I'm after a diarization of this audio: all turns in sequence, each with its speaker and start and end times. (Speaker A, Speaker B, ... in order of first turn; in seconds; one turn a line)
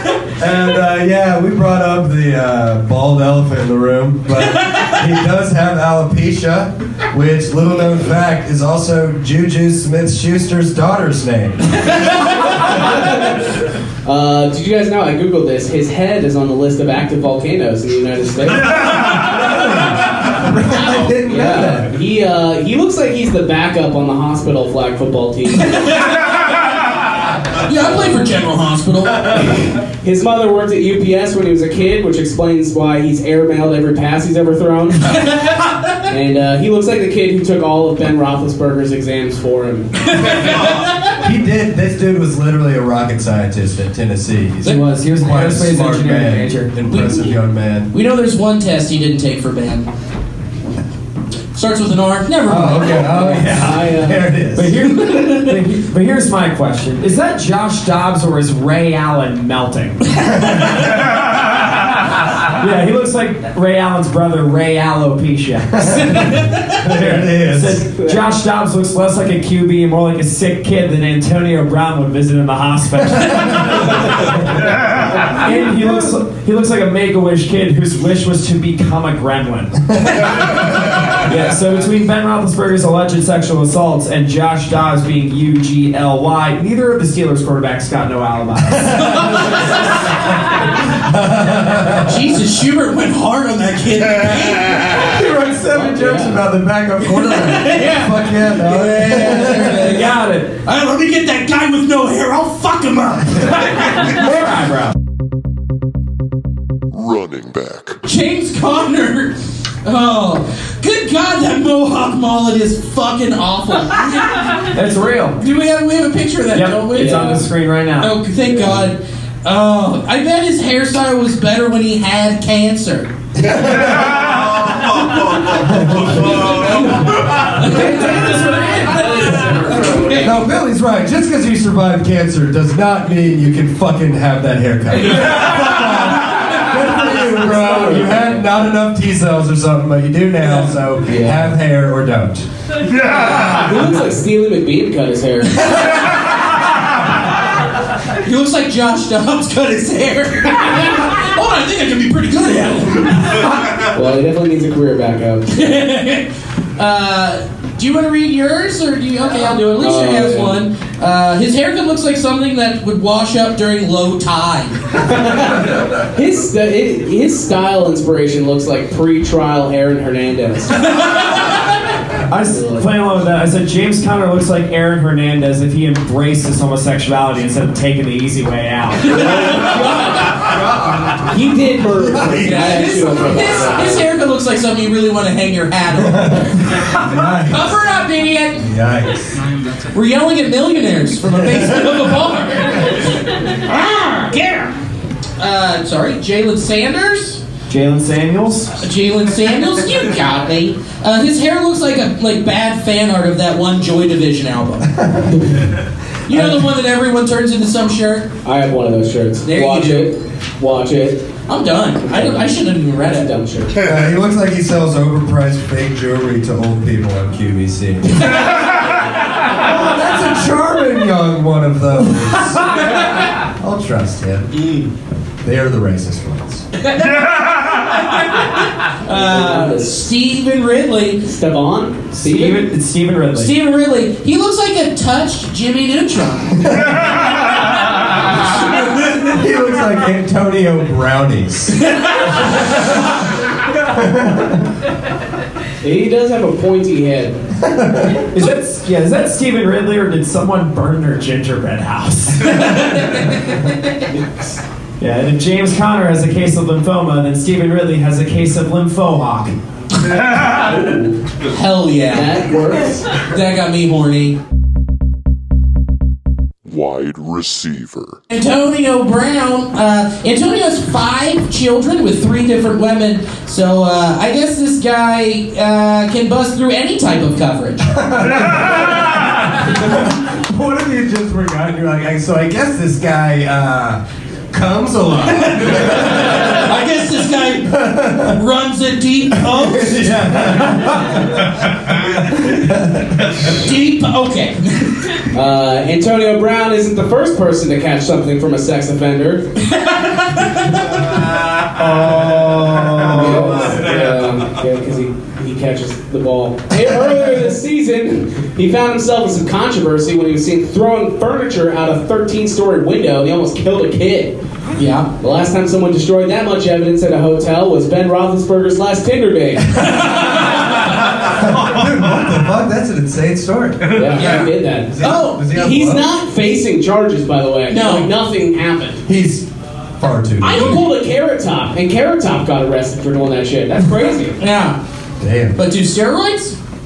Speaker A: 0.3-12.0
Speaker B: 14.0-19.2
Speaker A: 19.1-21.9
Speaker B: 21.2-25.7
Speaker C: 25.7-26.2
Speaker C: 27.6-29.6
Speaker B: 27.8-28.3
Speaker B: 29.3-35.2
Speaker B: 36.1-40.1
Speaker A: 41.2-47.9
Speaker D: 44.6-46.7
Speaker C: 46.9-47.3
Speaker C: 47.9-49.9
Speaker C: 51.5-53.4
Speaker A: 52.5-54.9
Speaker B: 53.1-54.2
Speaker D: 54.5-60.2
Speaker C: 55.0-55.5
Speaker D: 62.4-89.3
Speaker A: 65.7-67.8
Speaker C: 66.2-66.5
Speaker A: 73.3-73.7
Speaker A: 90.8-92.2
Speaker C: 92.0-95.0
Speaker A: 94.9-100.1
Speaker B: 95.7-96.4
Speaker C: 97.1-100.1
Speaker D: 99.5-100.6
Speaker C: 100.6-103.8
Speaker D: 104.0-104.9
Speaker E: 106.9-108.0
Speaker C: 108.0-114.7
Speaker D: 114.7-115.4
Speaker C: 115.4-117.4
Speaker D: 116.5-118.1
Speaker B: 116.9-117.4
Speaker C: 118.0-123.1
Speaker A: 123.3-124.6
Speaker A: 125.4-126.8
Speaker C: 126.1-130.3
Speaker B: 129.3-130.2
Speaker A: 130.1-142.4
Speaker B: 136.9-138.3
Speaker B: 141.0-141.5
Speaker B: 142.9-146.0
Speaker C: 148.2-153.5
Speaker B: 153.7-155.5
Speaker C: 155.5-164.8
Speaker B: 159.7-160.6
Speaker B: 165.0-170.9
Speaker D: 172.3-179.3
Speaker B: 172.4-172.9
Speaker B: 179.1-180.4
Speaker C: 179.1-179.8
Speaker A: 180.3-181.3
Speaker B: 181.2-184.1
Speaker A: 182.0-183.1
Speaker C: 182.3-186.7
Speaker A: 186.0-187.8
Speaker C: 187.4-188.7
Speaker A: 188.6-189.4
Speaker C: 189.9-194.7
Speaker A: 191.4-191.9
Speaker C: 195.4-197.4
Speaker D: 197.7-198.8
Speaker C: 198.8-204.9
Speaker A: 204.9-205.7
Speaker C: 206.3-208.3
Speaker B: 208.4-211.3
Speaker C: 209.4-210.1
Speaker C: 211.5-213.3
Speaker B: 212.1-213.8
Speaker A: 213.8-218.5
Speaker A: 219.5-224.8
Speaker A: 225.4-226.7
Speaker C: 226.9-231.2
Speaker B: 229.1-230.1
Speaker B: 231.2-232.6
Speaker D: 232.2-233.5
Speaker C: 233.3-236.8
Speaker A: 238.9-241.8
Speaker A: 242.5-243.1
Speaker A: 243.8-244.7
Speaker B: 245.8-247.4
Speaker A: 247.6-248.3
Speaker D: 248.3-252.7
Speaker C: 252.7-253.3
Speaker D: 255.0-259.5
Speaker C: 260.1-260.5
Speaker B: 260.6-261.2
Speaker C: 261.5-262.5
Speaker B: 262.1-263.1
Speaker C: 263.1-264.4
Speaker E: 266.6-268.2
Speaker C: 268.3-277.9
Speaker A: 277.9-286.6
Speaker C: 286.0-290.7
Speaker A: 287.6-288.4
Speaker A: 289.3-293.4
Speaker C: 293.4-295.2
Speaker B: 295.3-299.5
Speaker C: 299.6-300.9
Speaker D: 301.8-303.7
Speaker B: 303.0-314.4
Speaker C: 314.8-315.1
Speaker B: 315.2-320.1
Speaker A: 321.2-324.3
Speaker B: 323.9-329.0
Speaker C: 324.1-324.5
Speaker A: 324.9-326.1
Speaker C: 325.0-325.4
Speaker C: 327.7-328.1
Speaker A: 329.1-329.5
Speaker A: 330.0-330.7
Speaker C: 330.4-330.9
Speaker B: 330.5-334.4
Speaker C: 334.4-334.8
Speaker A: 335.2-335.6
Speaker C: 335.6-336.6